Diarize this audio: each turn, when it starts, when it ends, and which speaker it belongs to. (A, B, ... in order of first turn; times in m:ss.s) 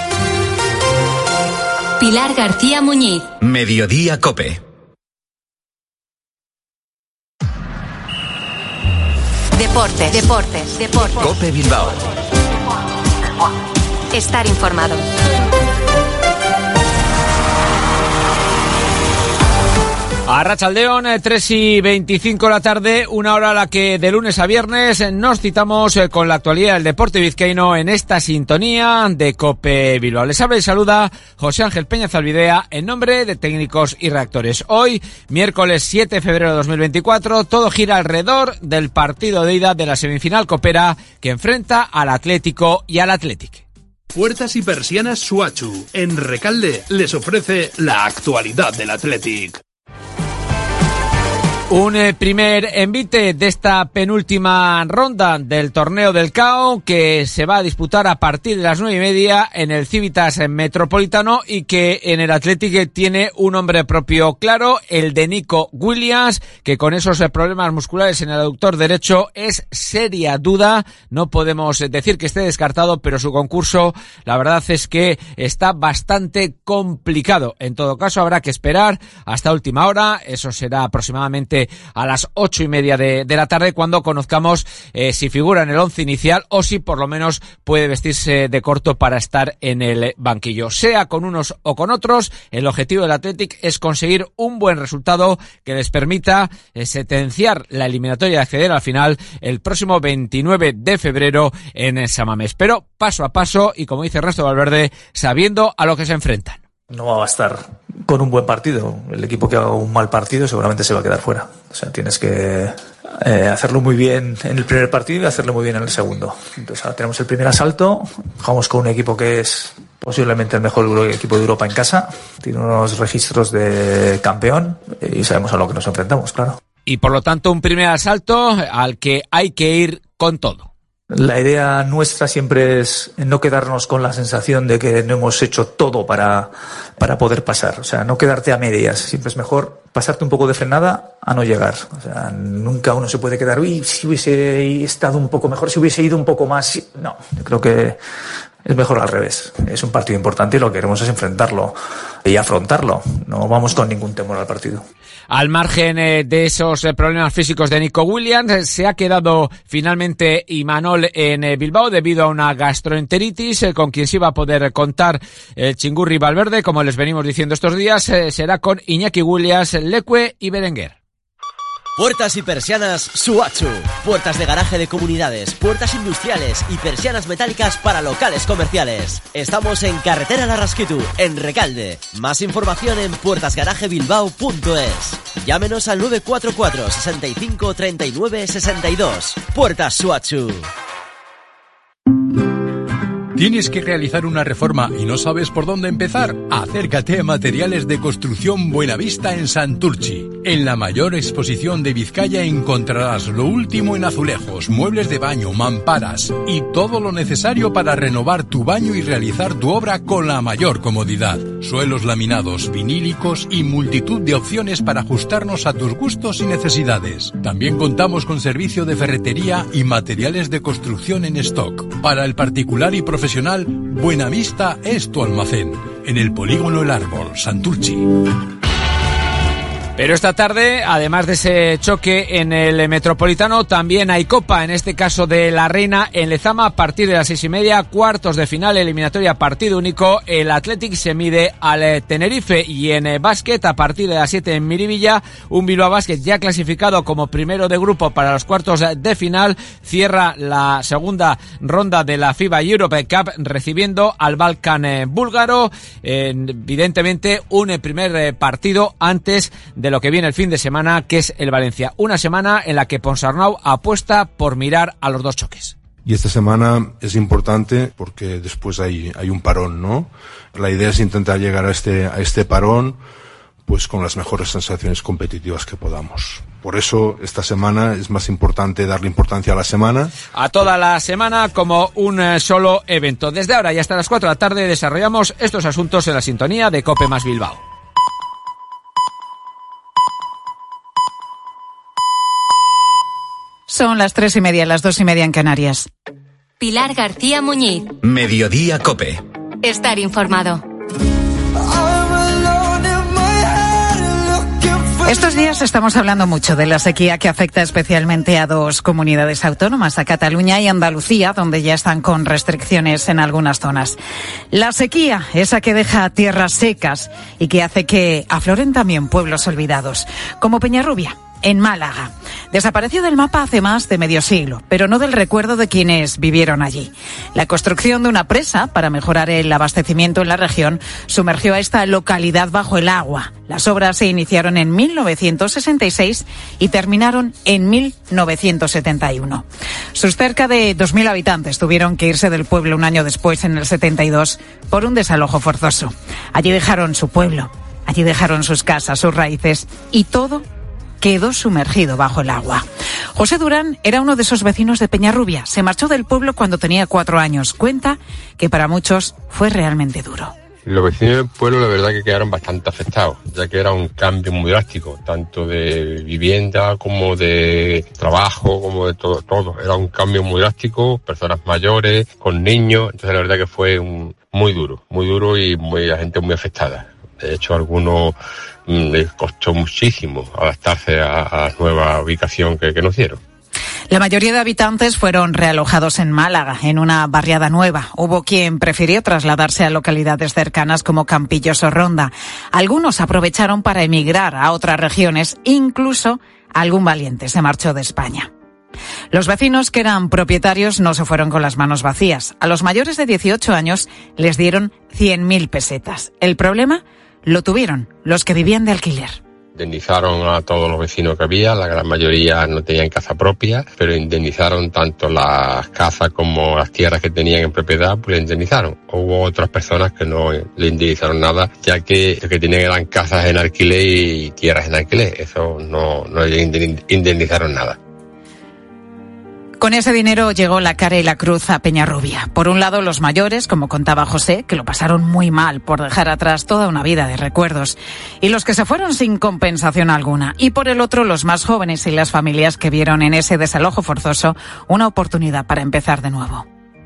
0:02.0-0:03.2 A
0:03.4-0:04.6 B
0:09.6-0:11.3 A
0:11.2-0:12.0 B
0:14.1-0:15.0 A
0:20.3-0:43.6 C
0:44.1-0:49.6 D
0:51.7-1:46.6 C
1:46.9-2:06.6 E
2:06.9-2:10.7 C
2:11.1-2:28.0 E
2:28.6-2:34.8 E
2:35.3-2:50.9 C
2:52.0-3:10.7 F
3:13.3-3:48.1 G
3:50.0-4:25.7 C
4:26.0-4:33.0 H
4:33.6-4:40.1 H
4:40.3-4:47.6 C
4:53.7-4:55.9 I
4:56.6-4:57.9 A
4:58.0-4:59.2 B
4:59.6-5:00.6 A
5:05.0-5:14.0 I
5:14.5-5:50.4 I
5:51.0-6:00.3 I
6:00.6-6:23.2 J
6:23.9-6:38.3 I
6:39.1-6:49.2 I
6:49.5-7:07.8 J
7:09.6-7:26.4 I